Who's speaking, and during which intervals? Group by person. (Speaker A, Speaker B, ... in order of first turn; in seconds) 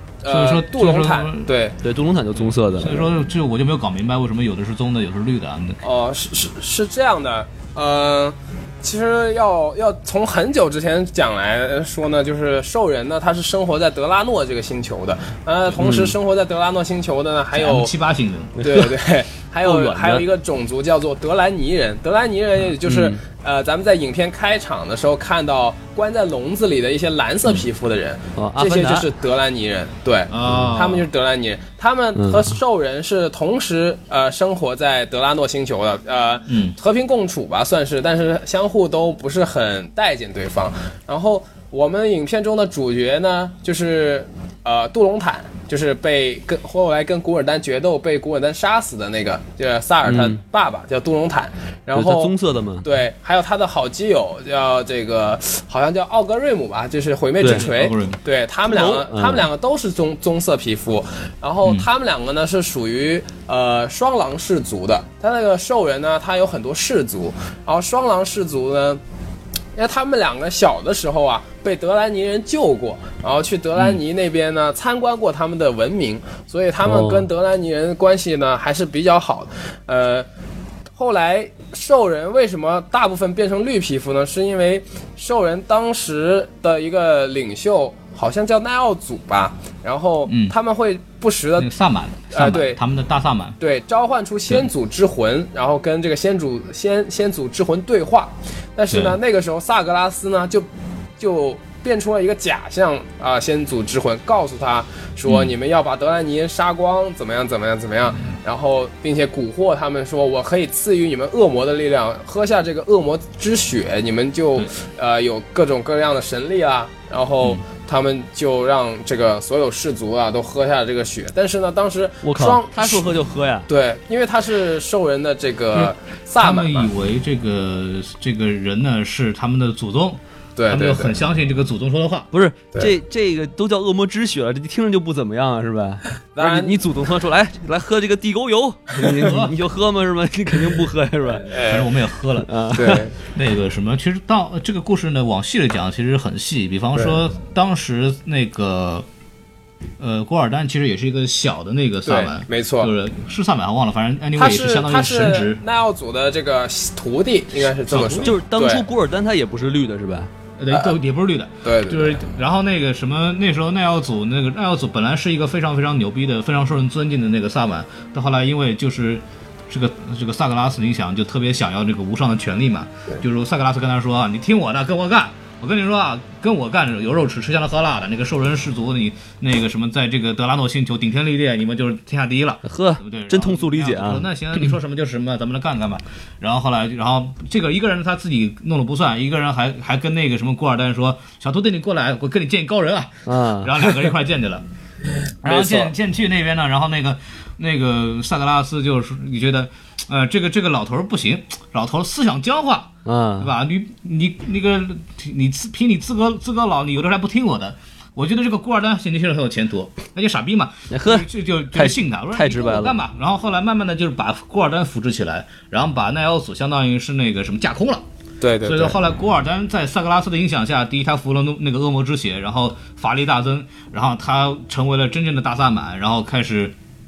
Speaker A: 0.2-1.8, 5.8-17.9, 18.6-69.0, 69.8-80.3, 81.0-91.7, 92.3-92.8, 93.6-100.7, 101.2-123.1, 123.7-126.9, 130.6-131.2, 136.3-136.9, 141.3-142.0, 142.7-143.2, 152.1-152.9, 154.4-158.8, 161.6-162.2, 195.4-195.9, 218.4-219.0
Speaker B: 0.3-1.5, 2.4-5.8, 17.5-18.6, 30.3-31.1, 36.5-36.8, 57.4-58.2, 73.8-74.0, 90.3-90.5, 91.6-93.6, 98.9-99.2, 105.3-105.5, 125.7-132.3, 139.2-139.6, 141.6-142.5, 143.3-149.1, 150.0-155.6, 157.9-158.3, 160.6-194.6, 195.4-218.1, 218.6-226.8
Speaker C: 1.8-3.0, 15.8-16.1, 18.6-19.0, 19.6-20.2, 22.8-23.2, 28.4-29.1, 32.2-32.5, 50.0-50.4, 51.9-52.9, 58.6-59.5, 76.8-77.3, 122.2-123.7, 132.3-141.5, 142.4-143.0, 157.9-160.3, 182.7-184.3, 193.3-193.7, 203.1-203.5, 210.9-213.0